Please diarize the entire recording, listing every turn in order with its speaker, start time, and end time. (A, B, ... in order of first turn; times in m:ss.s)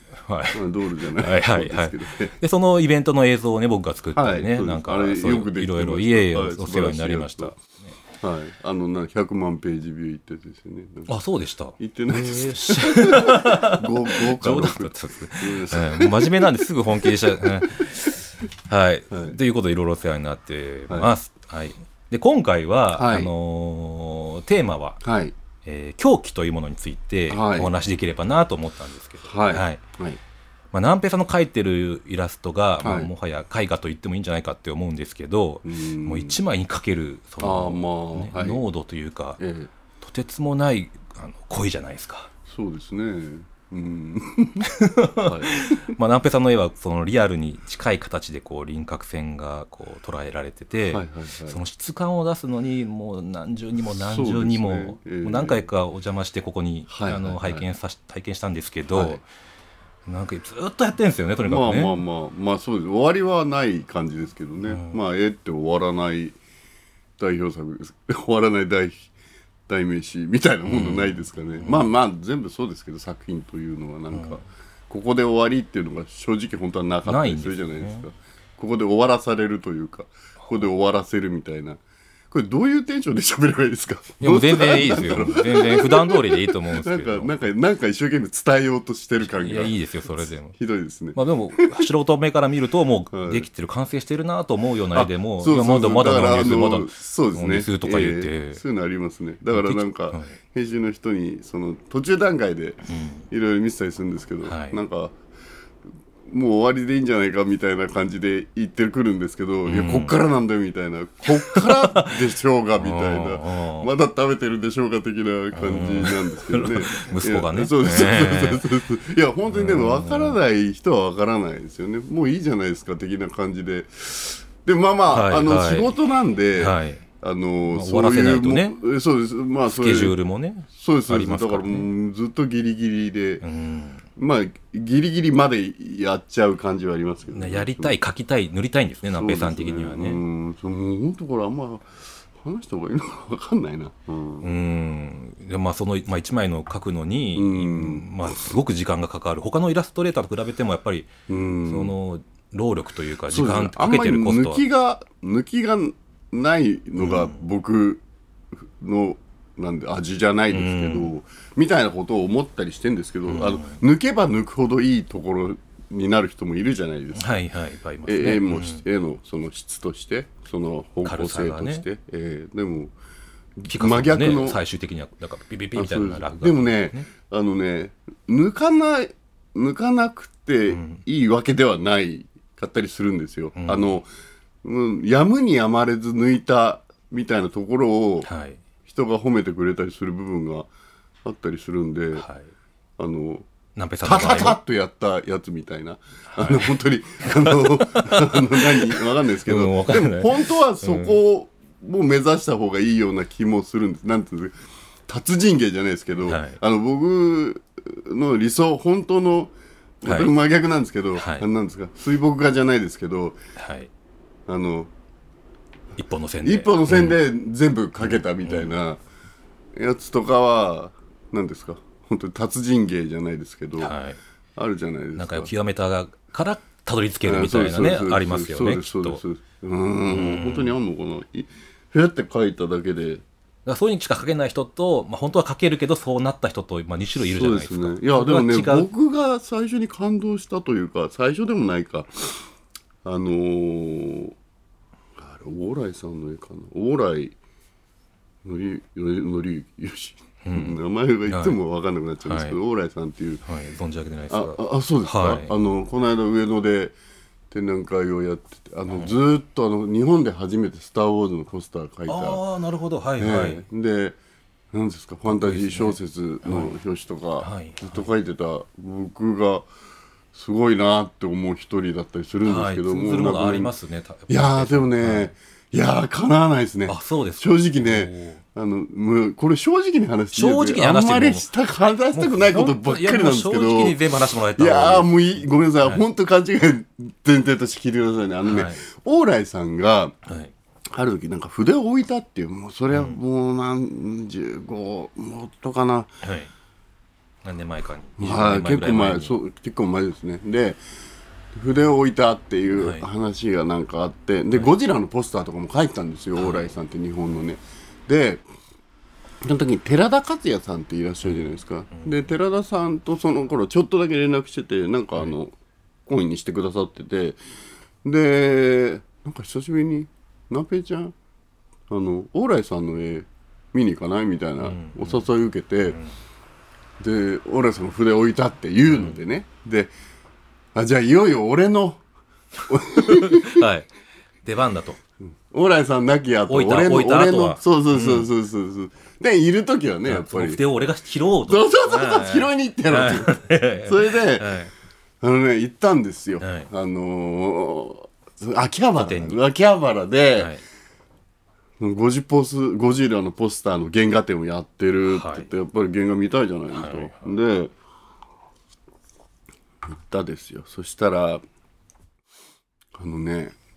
0:00.2-0:08.0 A
0:00.5-0:02.3 B
0:04.1-0:07.6 B
0:08.2-0:11.1 B
0:11.1-0:25.0 A
0:11.8-0:17.8 B
0:19.1-0:19.4 B
0:22.9-0:23.3 B
0:25.0-0:25.3 B
0:25.6-0:29.8 A
0:27.3-0:27.7 B
0:29.2-0:30.2 B
0:30.7-0:39.4 A
0:32.8-0:33.1 B
0:35.6-0:36.4 B
0:37.4-0:38.6 B
0:39.4-0:39.7 B
0:40.0-0:42.3 A
0:42.5-0:45.9 B
0:44.6-0:59.2 A
0:50.9-0:51.6 B
0:53.8-0:55.6 B
0:56.9-0:57.6 B
0:58.9-0:59.2 B
1:00.0-1:02.0 A
1:01.4-1:06.4 B
1:04.6-1:05.0 A
1:07.2-1:09.1 B
1:09.7-1:21.8 B
1:10.6-1:11.9 A
1:14.1-1:14.4 A
1:17.0-1:18.1 A
1:22.3-1:31.9 B
1:24.2-1:27.4 A
1:29.2-1:30.6 A
1:31.1-1:38.6 A
1:33.1-1:33.5 B
1:34.9-1:45.1 B
1:39.5-1:40.3 A
1:42.8-1:43.2 A
1:44.4-1:44.8 A
1:46.3-2:10.2 B
1:49.6-1:50.2 A
1:51.4-1:52.2 A
1:52.8-1:53.9 A
1:55.5-1:58.7 A
1:59.5-2:00.4 A
2:05.1-2:05.9 A
2:06.5-2:07.0 A
2:07.7-2:08.8 A
2:09.6-2:11.9 A
2:10.7-2:13.4 B
2:13.4-2:14.0 A
2:14.2-2:18.0 B
2:17.3-2:20.2 A
2:19.1-2:21.8 B
2:22.4-2:24.5 B
2:24.4-2:31.1 A
2:27.3-2:28.4 B
2:31.3-2:32.0 B
2:31.6-2:34.6 A
2:33.3-2:38.0 B
2:37.0-2:37.4 A
2:38.6-2:47.3 B
2:40.5-2:41.1 A
2:43.2-2:43.8 A
2:47.1-2:48.8 A
2:48.1-2:52.9 B
2:51.0-2:51.8 A
2:53.6-2:54.6 B
2:53.6-2:57.1 A
2:55.7-3:04.0 B
3:00.7-3:01.0 A
3:03.5-3:04.0 A
3:04.6-3:08.3 B
3:08.2-3:08.6 A
3:08.8-3:10.7 B
3:11.2-3:12.2 B
3:12.1-3:12.5 A
3:13.0-3:13.5 B
3:13.8-3:14.6 A
3:14.0-3:24.5 B
3:16.3-3:21.2 A
3:25.1-3:33.4 B
3:26.2-3:26.6 A
3:30.0-3:30.3 A
3:31.1-3:31.4 A
3:33.6-3:33.9 A
3:34.5-3:34.9 B
3:36.0-3:37.2 A
3:36.4-3:39.0 B
3:38.0-3:38.8 A
3:39.8-3:43.9 B
3:43.8-3:44.2 A
3:44.6-3:45.5 B
3:45.2-3:49.2 A
3:47.2-3:53.2 B
3:50.1-3:50.8 A
3:53.6-3:58.9 A
3:57.2-4:02.4 B
4:03.0-4:04.3 B
4:05.2-4:07.3 B
4:08.4-4:13.4 B
4:10.4-4:11.6 A
4:12.2-4:12.6 A
4:13.4-4:15.5 A
4:14.3-4:16.9 B
4:17.5-4:22.4 B
4:18.9-4:19.2 A
4:22.0-4:23.6 A
4:23.2-4:24.2 B
4:24.7-4:29.6 B
4:25.2-4:26.7 A
4:27.4-4:28.1 A
4:30.3-4:33.7 B
4:32.4-4:35.3 A
4:34.3-4:50.1 B
4:36.9-4:38.4 A
4:40.3-4:41.5 A
4:42.1-4:46.0 A
4:48.4-4:48.9 A
4:50.2-4:50.5 A
4:50.9-4:56.1 B
4:52.9-4:53.2 A
4:56.2-4:56.5 A
4:57.4-4:59.4 A
4:58.2-5:00.8 B
5:01.5-5:08.4 B
5:02.8-5:03.0 A
5:06.4-5:06.7 A
5:09.4-5:15.5 B
5:11.2-5:12.3 A
5:16.1-5:17.4 B
5:18.0-5:21.1 B
5:21.9-5:26.0 B
5:24.6-5:25.3 A
5:25.9-5:26.1 A
5:27.0-5:29.9 B
5:28.9-5:29.2 A
5:30.7-5:32.0 B
5:32.7-5:33.7 B
5:33.0-5:33.9 A
5:34.4-5:35.0 A
5:35.5-5:40.6 B
5:36.4-5:38.3 A
5:40.0-5:44.7 A
5:41.4-5:44.6 B
5:45.2-5:50.5 B
5:46.4-5:46.7 A
5:48.9-5:49.4 A
5:50.4-5:50.6 A
5:51.8-5:57.7 B
5:55.1-5:55.5 A
5:56.7-5:57.3 A
5:59.9-6:01.4 B
6:03.0-6:03.5 B